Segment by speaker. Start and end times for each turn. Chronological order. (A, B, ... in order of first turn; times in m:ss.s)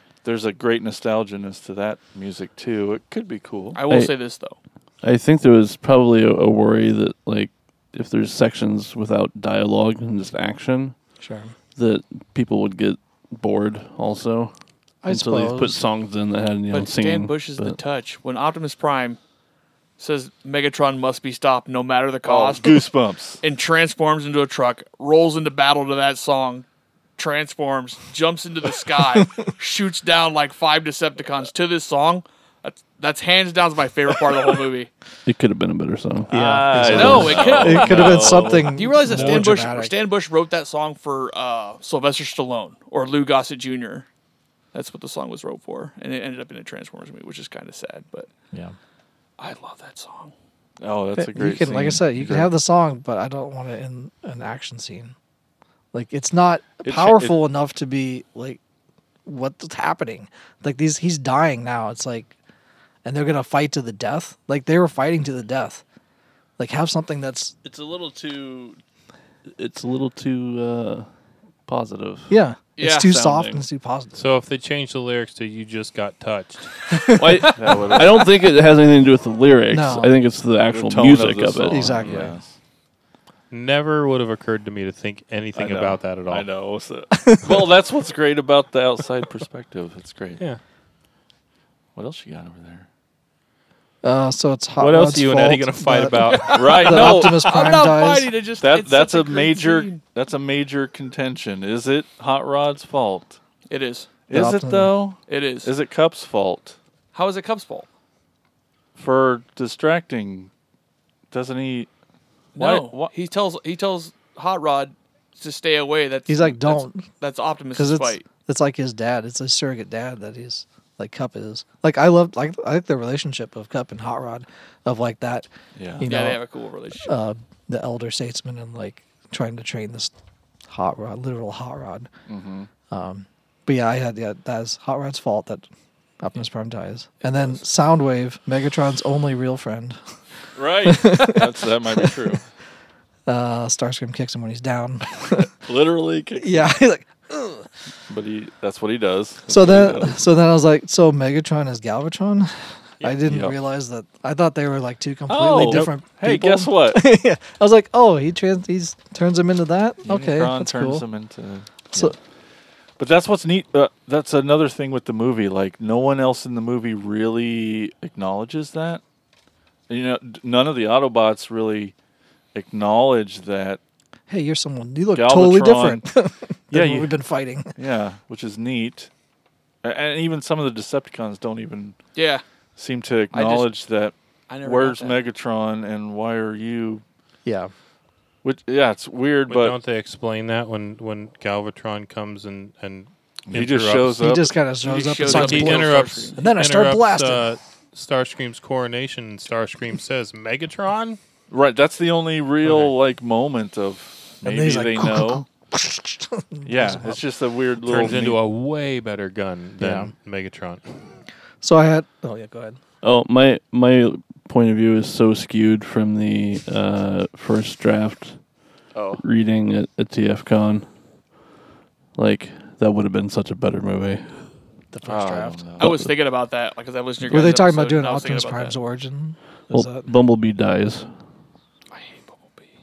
0:00.2-0:03.8 A
0:03.7-0:04.6 B
0:03.9-0:04.2 C
0:05.0-0:11.0 C
0:11.2-0:11.6 D
0:11.8-0:14.5 C
0:15.0-0:15.8 D
0:15.1-0:17.8 C
0:16.7-0:19.2 B
0:20.0-0:22.8 B
0:22.2-0:23.4 A
0:23.4-0:26.7 B
0:27.2-0:34.9 B
0:29.1-0:29.4 D
0:35.3-0:38.0 C
0:36.3-0:40.0 D
0:36.3-0:39.4 A
0:36.9-0:44.1 B
0:39.1-0:39.4 C
0:44.7-0:48.3 B
0:49.4-0:50.3 B
0:50.8-0:52.5 A
0:51.2-0:55.2 D
0:55.9-0:58.6 D
0:56.8-0:57.4 A
0:59.2-1:02.3 D
1:03.0-1:05.8 D
1:06.6-1:07.6 D
1:07.6-1:08.8 C
1:09.6-1:11.1 C
1:11.7-1:12.4 C
1:12.3-1:14.3 D
1:12.8-1:13.2 B
1:13.0-1:13.6 C
1:14.2-1:16.8 E
1:16.9-1:17.5 D
1:17.2-1:22.1 C
1:17.6-1:18.2 A
1:19.7-1:20.2 D
1:20.7-1:22.5 A
1:21.7-1:22.4 D
1:23.5-1:26.5 E
1:25.6-1:30.4 A
1:27.2-1:27.6 D
1:32.0-1:32.9 A
1:34.0-1:38.3 D
1:34.8-1:36.8 E
1:36.2-1:40.0 B
1:36.5-1:37.5 A
1:38.6-1:43.4 A
1:43.7-1:44.1 B
1:44.3-1:46.8 A
1:44.3-1:45.0 D
1:45.3-1:45.7 B
1:47.1-1:47.9 B
1:49.0-1:50.5 A
1:51.3-1:51.9 A
1:52.6-1:58.2 B
1:52.6-1:53.1 A
1:56.3-1:57.1 D
1:57.8-2:06.4 D
2:05.8-2:06.1 A
2:06.0-2:07.1 B
2:07.0-2:10.1 D
2:10.7-2:12.1 D
2:12.3-2:12.7 A
2:12.9-2:15.7 D
2:16.2-2:20.0 D
2:20.6-2:22.5 A
2:20.8-2:22.4 D
2:23.3-2:25.5 D
2:25.6-2:26.8 A
2:26.4-2:27.7 D
2:28.1-2:30.2 A
2:29.5-2:41.1 D
2:33.2-2:33.6 A
2:35.3-2:37.0 A
2:40.0-2:42.2 A
2:43.0-2:49.0 A
2:49.9-2:52.0 A
2:52.5-2:53.8 A
2:54.3-2:57.7 D
2:55.2-2:56.1 A
2:56.7-2:57.2 A
2:57.7-2:59.1 A
2:59.8-3:02.0 A
3:02.2-3:02.4 B
3:02.8-3:07.0 A
3:03.3-3:03.7 B
3:04.5-3:05.2 B
3:07.4-3:07.7 D
3:08.4-3:09.8 A
3:09.5-3:14.2 E
3:13.5-3:14.6 A
3:14.2-3:17.5 D
3:14.8-3:16.4 B
3:15.2-3:21.2 E
3:21.5-3:25.4 A
3:22.6-3:22.9 E
3:24.4-3:27.2 D
3:26.6-3:28.4 A
3:27.8-3:31.1 E
3:29.8-3:30.1 D
3:31.6-3:32.8 D
3:33.0-3:38.4 C
3:38.9-3:39.2 A
3:39.2-3:40.9 C
3:42.2-3:44.5 C
3:44.9-3:45.7 D
3:45.0-3:46.0 A
3:45.8-3:46.1 C
3:45.8-3:48.8 B
3:47.3-3:50.1 D
3:49.7-3:51.1 C
3:51.9-3:52.7 B